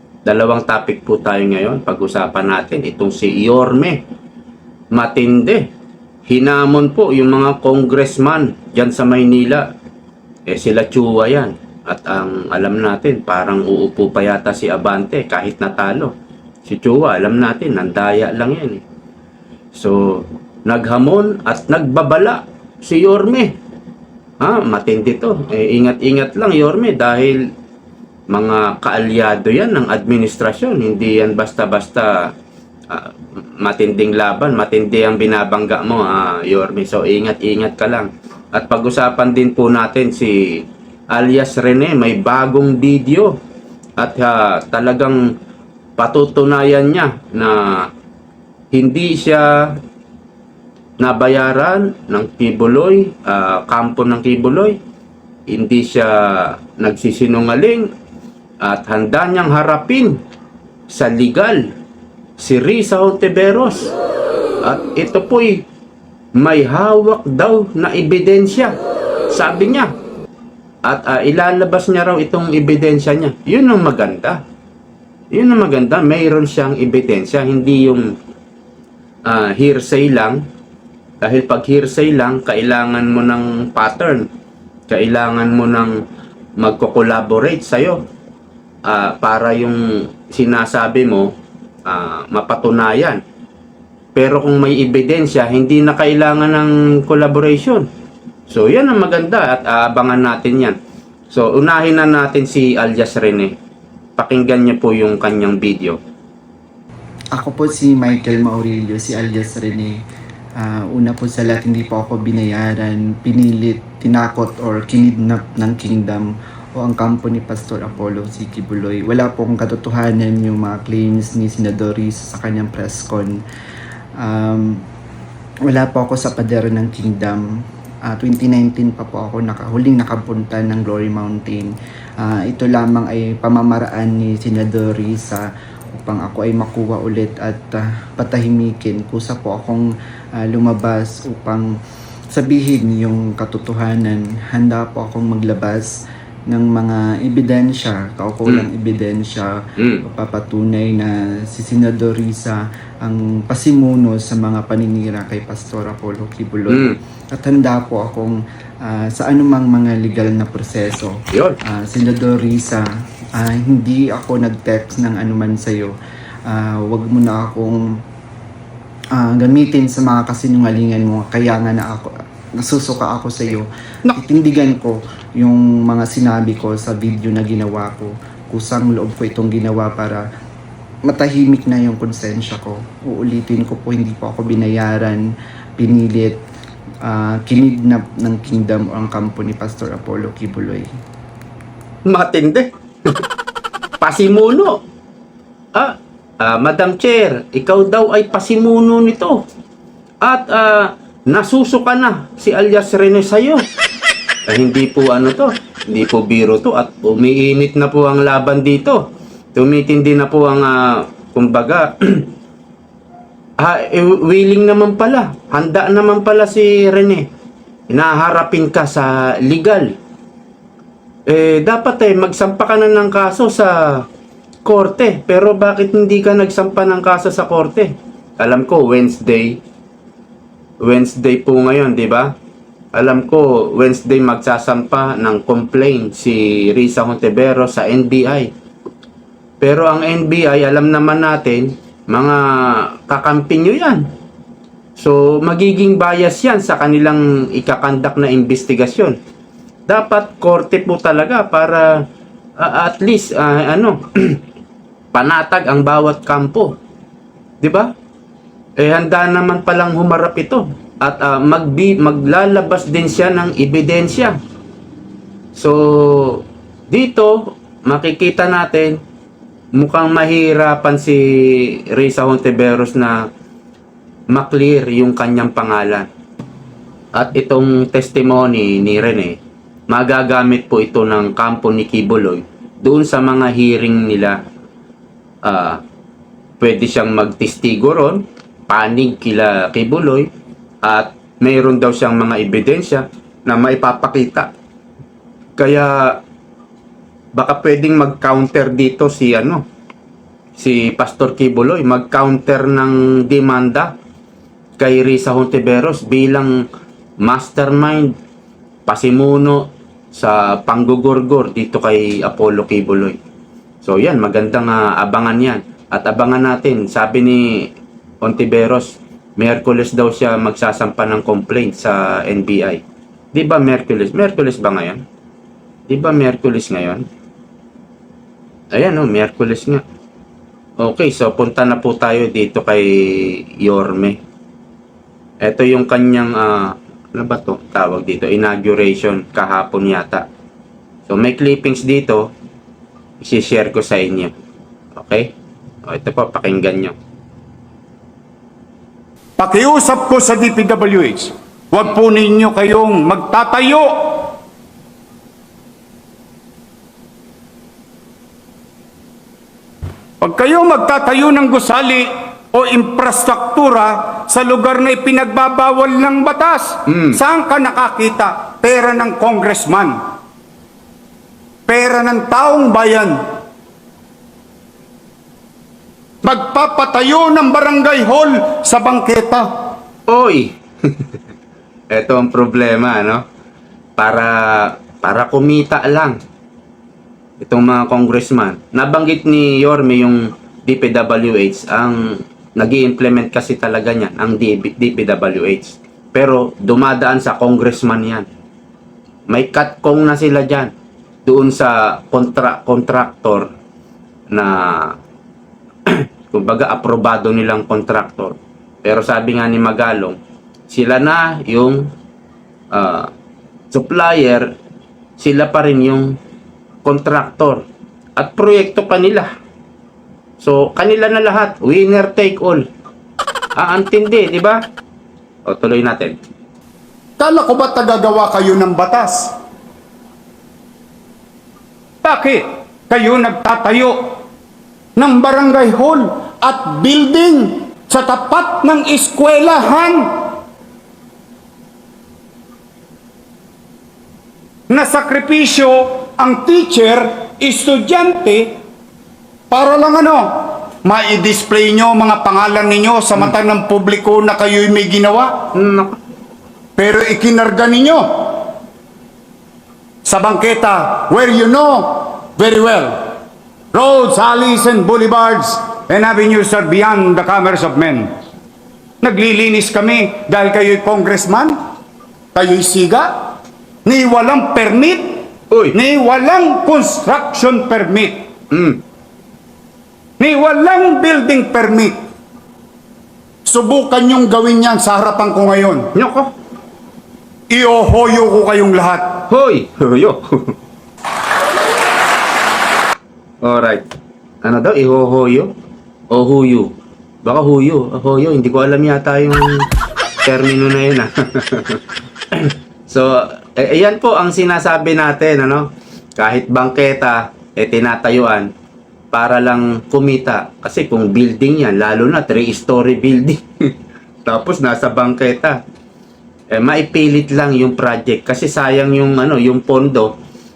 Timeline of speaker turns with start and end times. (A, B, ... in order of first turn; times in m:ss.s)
0:00.2-0:04.0 A
0:04.9-0:05.7 A
0:06.3-0:09.7 A
0:10.5-0:16.1 A
0:16.6-0:18.8 A
0:19.7-0:23.6 A
0:24.4-0:27.4 A
0:28.3-0:32.3 A
0:32.9-0:43.4 A
0:44.0-0:45.2 A
0:46.0-0:47.9 A
0:48.7-0:49.8 A
0:51.0-0:54.8 A
0:55.5-0:57.9 A
0:58.6-1:00.2 A
1:00.9-1:01.7 A
1:02.4-1:03.9 A
1:04.6-1:05.6 A
1:06.4-1:08.8 A
1:09.3-1:09.9 A
1:10.8-1:14.4 A
1:15.3-1:18.1 A
1:19.2-1:20.4 A
1:21.2-1:24.3 A
1:24.9-1:26.0 A
1:26.6-1:28.0 A
1:28.9-1:31.3 A
1:31.8-1:33.2 A
1:34.1-1:37.9 A
1:38.5-1:40.8 A
1:41.3-1:43.5 A
1:44.2-1:46.0 A
1:47.3-1:50.0 B
1:50.6-1:56.2 B
1:56.8-2:03.4 B
2:04.2-2:04.8 B
2:05.7-2:07.4 B
2:08.0-2:11.7 B
2:12.2-2:15.4 B
2:15.9-2:19.8 B
2:20.4-2:21.6 B
2:22.3-2:25.9 B
2:26.5-2:29.5 B
2:29.8-2:30.0 A
2:30.0-2:41.1 B
2:36.7-2:37.0 A
2:41.3-2:41.6 A
2:41.6-2:42.8 B
2:43.4-2:45.9 B
2:46.5-2:47.8 B
2:49.2-2:52.1 B
2:52.6-3:00.2 B
3:01.0-3:05.2 B
3:05.8-3:06.4 B
3:07.0-3:10.9 B
3:12.0-3:13.2 A
3:14.0-3:14.8 A
3:15.7-3:19.4 A
3:20.2-3:23.6 A
3:24.5-3:32.3 A
3:33.6-3:37.3 A
3:37.9-3:39.9 A
3:41.3-3:44.0 A
3:44.6-3:49.6 A
3:50.8-3:52.3 A
3:52.9-3:58.5 A
3:59.6-4:04.0 A
4:05.0-4:09.2 A
4:09.9-4:12.0 A
4:12.6-4:14.4 A
4:15.1-4:16.8 A
4:17.6-4:17.9 A
4:18.8-4:24.4 A
4:25.5-4:29.0 A
4:29.7-4:33.3 A
4:34.3-4:36.1 A
4:37.1-4:39.4 A
4:39.9-4:44.4 A
4:45.4-4:45.8 A
4:46.6-4:50.3 A
4:50.8-4:54.5 A
4:55.6-4:56.2 A
4:57.4-4:59.6 A
5:00.6-5:03.9 A
5:04.8-5:06.5 A
5:07.2-5:08.1 A
5:08.9-5:13.2 A
5:13.8-5:17.7 A
5:18.2-5:22.8 A
5:23.3-5:25.0 A
5:25.9-5:27.0 A
5:28.7-5:29.8 A
5:30.8-5:34.2 A
5:35.4-5:40.2 A
5:41.1-5:42.3 A
5:43.2-5:44.3 A
5:44.9-5:45.3 A
5:45.8-5:46.9 A
5:49.4-5:54.3 C
6:00.2-6:10.0 C
6:06.9-6:07.2 A
6:11.7-6:13.2 C
6:16.2-6:19.5 C
6:20.1-6:21.0 A
6:21.9-6:23.2 A
6:24.0-6:26.2 A
6:27.4-6:38.3 A
6:39.3-6:40.7 A
6:41.2-6:43.5 A
6:44.3-6:45.0 A
6:45.9-6:50.2 A
6:50.7-6:51.9 A
6:52.7-6:53.1 A
6:53.7-6:54.5 A
6:55.2-6:56.2 A
6:56.8-6:57.6 A
6:58.2-6:59.3 A
7:00.4-7:02.7 A
7:03.6-7:04.6 A
7:05.4-7:06.1 A
7:07.2-7:09.3 C
7:12.0-7:14.1 C
7:15.0-7:20.1 C
7:24.7-7:28.5 C
7:29.5-7:35.5 C
7:35.5-7:36.0 A
7:36.8-7:38.5 C
7:40.0-7:42.9 C
7:43.7-7:48.1 C
7:49.0-7:51.6 C
7:52.3-7:53.2 C
7:53.8-7:58.2 C
7:55.5-7:55.8 A
7:58.5-7:58.8 A
8:00.2-8:02.0 C
8:03.4-8:05.9 C
8:05.9-8:06.3 A
8:07.5-8:09.2 C
8:09.3-8:10.5 A
8:13.4-8:13.9 A
8:14.4-8:15.5 A
8:16.1-8:16.7 A
8:17.2-8:19.7 A
8:20.2-8:28.5 A
8:29.1-8:33.7 A
8:34.2-8:35.6 A
8:36.5-8:40.1 A